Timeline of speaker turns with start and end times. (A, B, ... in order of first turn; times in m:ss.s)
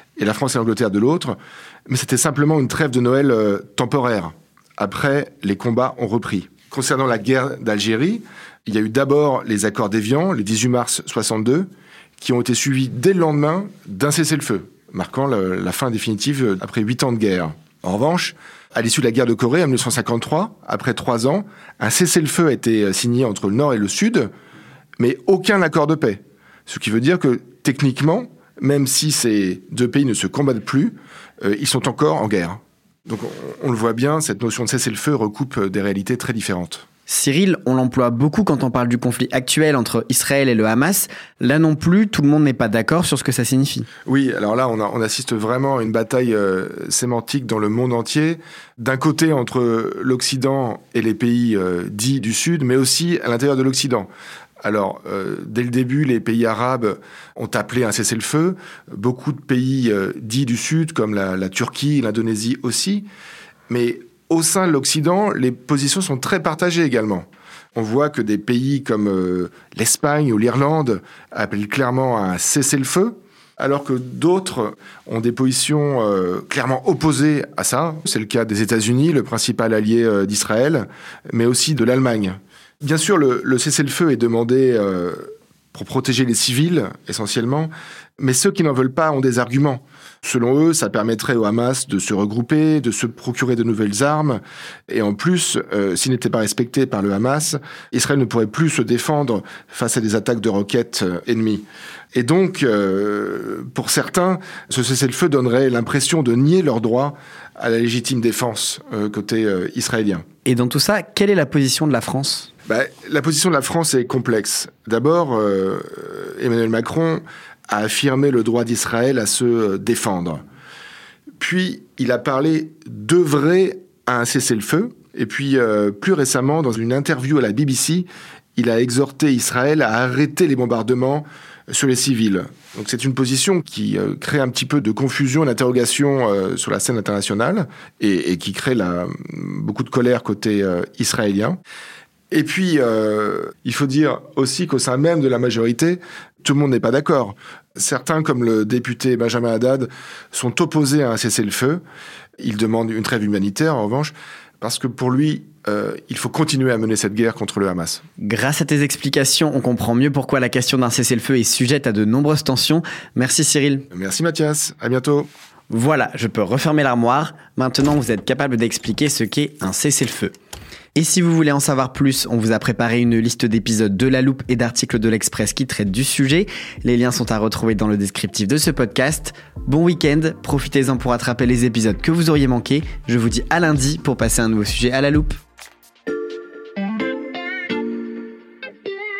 0:00.2-0:24.3 A
0:25.0-0:36.8 A
0:37.1-0:43.9 B
0:44.1-0:54.1 A
0:54.6-1:03.1 A
1:03.7-1:50.2 A
1:50.4-1:52.5 B
1:52.7-2:00.4 A
2:01.4-2:21.6 A
2:22.3-2:31.8 A
2:32.4-2:38.0 A
2:38.2-2:43.9 B
2:43.9-2:45.3 A
2:45.7-2:50.3 B
2:51.0-3:05.4 B